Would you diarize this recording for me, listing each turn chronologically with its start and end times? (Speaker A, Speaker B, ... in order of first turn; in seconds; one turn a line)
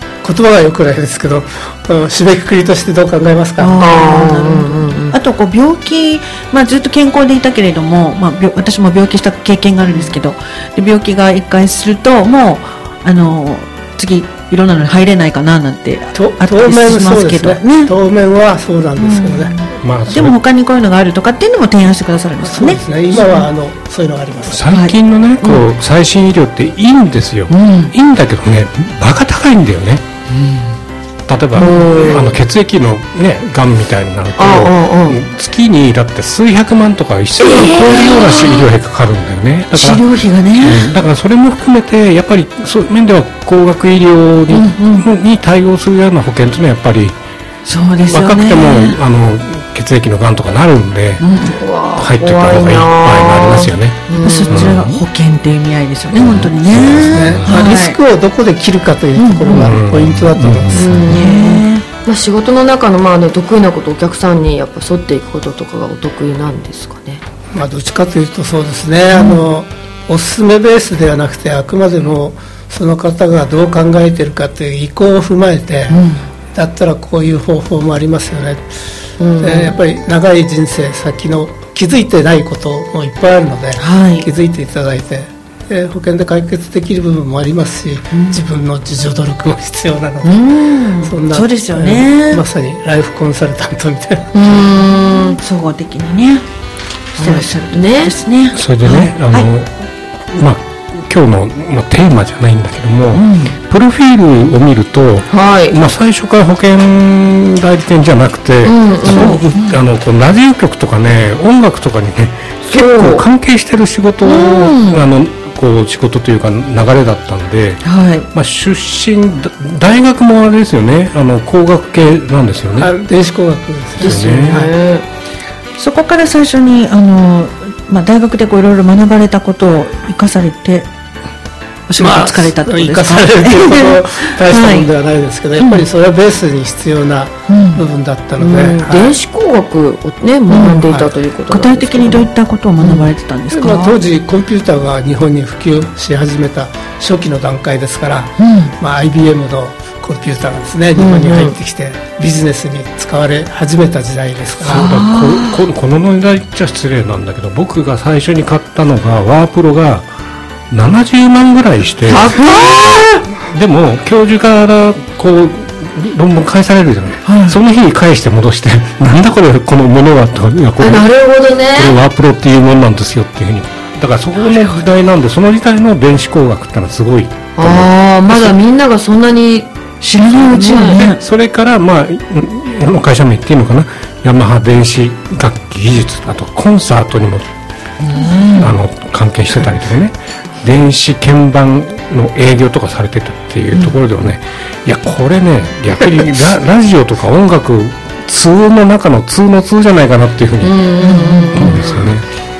Speaker A: 0.2-3.8
Speaker B: 3.6-17.9
Speaker C: 3.8-5.2
Speaker A: 16.1-19.7
Speaker B: 19.0-23.5
Speaker D: 19.8-20.4
Speaker A: 22.4-24.6
Speaker D: 24.5-30.0
Speaker B: 24.7-24.9
Speaker B: 27.5-27.9
Speaker B: 30.3-30.7
Speaker D: 31.3-47.2
Speaker C: 31.6-32.3
Speaker C: 34.4-35.2
Speaker B: 37.5-38.6
Speaker B: 39.7-40.9
Speaker B: 44.5-45.1
Speaker B: 47.6-49.0
Speaker D: 48.0-51.2
Speaker B: 51.2-51.5
Speaker C: 51.4-54.7
Speaker D: 52.0-55.0
Speaker B: 54.2-58.0
Speaker D: 56.1-57.7
Speaker A: 57.1-61.2
Speaker B: 59.1-59.7
Speaker D: 59.5-61.1
Speaker C: 60.7-67.2
Speaker B: 61.1-61.8
Speaker A: 67.5-76.0
Speaker B: 69.1-69.4
Speaker B: 75.9-76.2
Speaker A: 76.5-78.7
Speaker C: 79.2-79.7
Speaker A: 79.4-90.4
Speaker B: 83.8-84.3
Speaker B: 88.1-88.4
Speaker B: 90.2-92.4
Speaker A: 91.0-94.3
Speaker C: 94.3-95.4
Speaker B: 95.0-96.4
Speaker B: 97.2-99.5
Speaker C: 97.2-98.2
Speaker D: 98.5-122.9
Speaker B: 103.1-103.5
Speaker C: 105.3-105.8
Speaker C: 108.6-109.4
Speaker B: 109.2-109.8
Speaker C: 112.7-113.2
Speaker B: 114.2-115.0
Speaker B: 117.8-118.3
Speaker A: 122.8-124.7
Speaker C: 124.0-125.0
Speaker D: 124.0-124.6
Speaker B: 125.8-130.9
Speaker B: 131.9-134.9
Speaker A: 132.0-139.2
Speaker B: 135.6-135.8
Speaker B: 137.5-137.8
Speaker C: 138.4-142.3
Speaker B: 140.5-140.9
Speaker B: 141.5-144.0
Speaker A: 143.5-154.9
Speaker B: 148.4-148.7
Speaker C: 150.9-151.6
Speaker D: 154.6-160.1
Speaker B: 154.7-155.6
Speaker D: 160.7-171.1
Speaker C: 162.1-163.2
Speaker B: 167.2-167.6
Speaker C: 170.8-172.0
Speaker D: 171.7-178.5
Speaker B: 174.4-174.8
Speaker C: 177.6-179.7
Speaker B: 180.0-181.2
Speaker C: 180.4-181.0
Speaker D: 180.9-187.5
Speaker B: 188.0-188.8
Speaker D: 188.6-200.8
Speaker C: 200.6-202.1
Speaker B: 201.0-201.8
Speaker D: 201.5-202.2